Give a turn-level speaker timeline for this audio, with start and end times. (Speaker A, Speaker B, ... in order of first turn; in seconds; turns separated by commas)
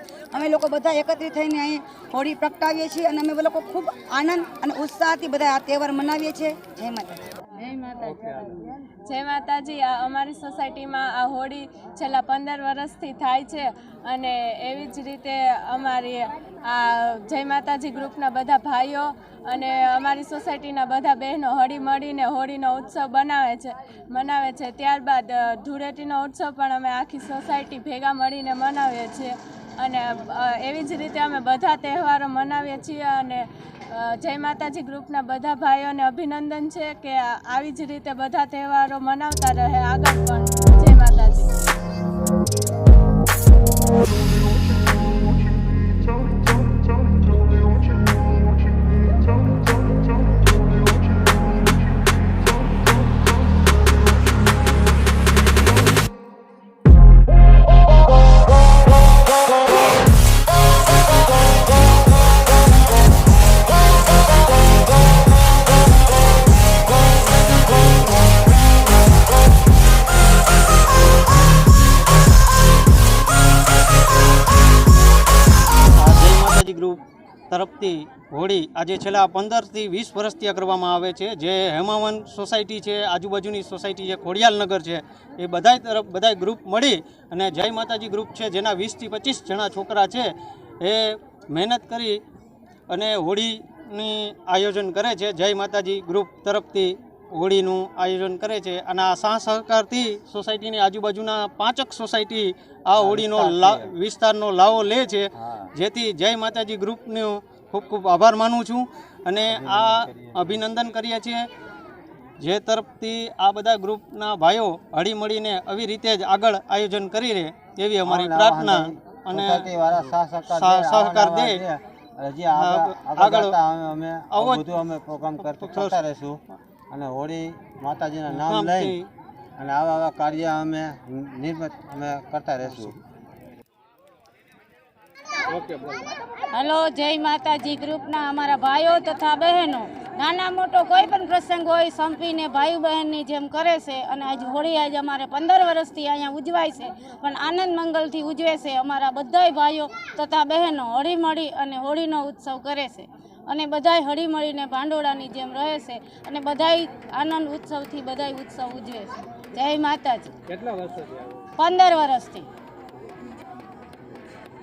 Speaker A: 0.3-7.2, Speaker B: 7.7-8.4, Speaker C: 9.1-41.5, Speaker D: 76.0-77.0, Speaker D: 77.5-92.2, Speaker D: 92.9-111.5, Speaker E: 103.0-103.9, Speaker E: 105.4-105.7, Speaker E: 109.5-110.6, Speaker D: 112.4-121.6, Speaker E: 118.0-126.4, Speaker D: 122.5-123.5, Speaker D: 124.3-124.8, Speaker D: 125.4-126.0, Speaker E: 126.9-129.0, Speaker D: 128.3-129.1, Speaker E: 129.6-132.9, Speaker B: 136.5-160.3, Speaker B: 161.6-162.5